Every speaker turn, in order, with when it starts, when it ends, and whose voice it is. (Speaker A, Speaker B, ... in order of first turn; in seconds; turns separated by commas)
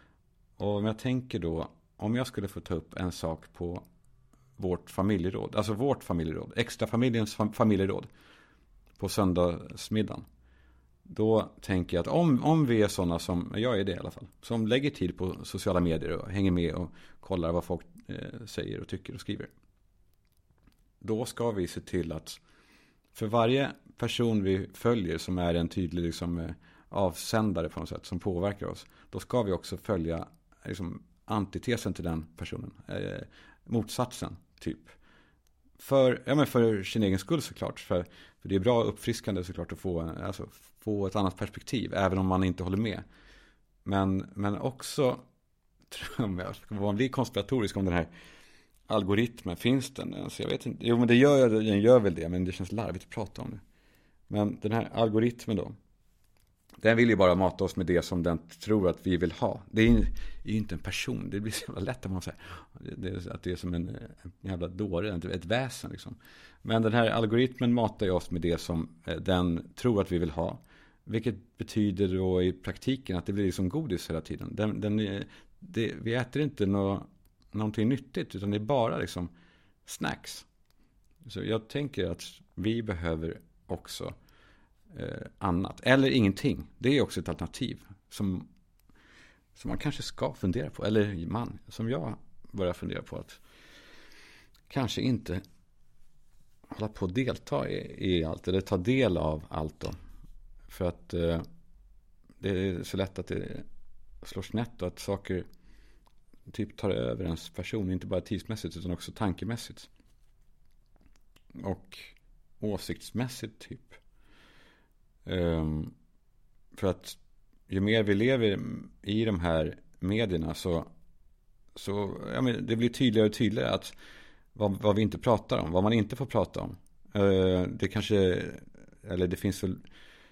Speaker A: 0.6-3.8, Speaker A: 4.6-8.1, Speaker A: 9.0-10.2, Speaker A: 11.1-19.5, Speaker A: 21.0-22.4, Speaker A: 23.1-34.9, Speaker A: 35.8-43.0, Speaker A: 43.8-45.2, Speaker A: 45.9-48.1, Speaker A: 48.9-53.6, Speaker A: 54.3-55.8, Speaker A: 56.8-79.3, Speaker A: 79.8-80.5, Speaker A: 81.2-84.1, Speaker A: 84.9-88.5, Speaker A: 89.5-93.4, Speaker A: 94.7-95.4, Speaker A: 96.7-100.0, Speaker A: 100.7-101.4, Speaker A: 102.4-103.7, Speaker A: 104.2-105.5, Speaker A: 106.5-109.9, Speaker A: 111.6-114.0, Speaker A: 115.2-115.9, Speaker A: 116.7-117.2, Speaker A: 117.7-120.9, Speaker A: 121.7-123.9, Speaker A: 124.5-129.8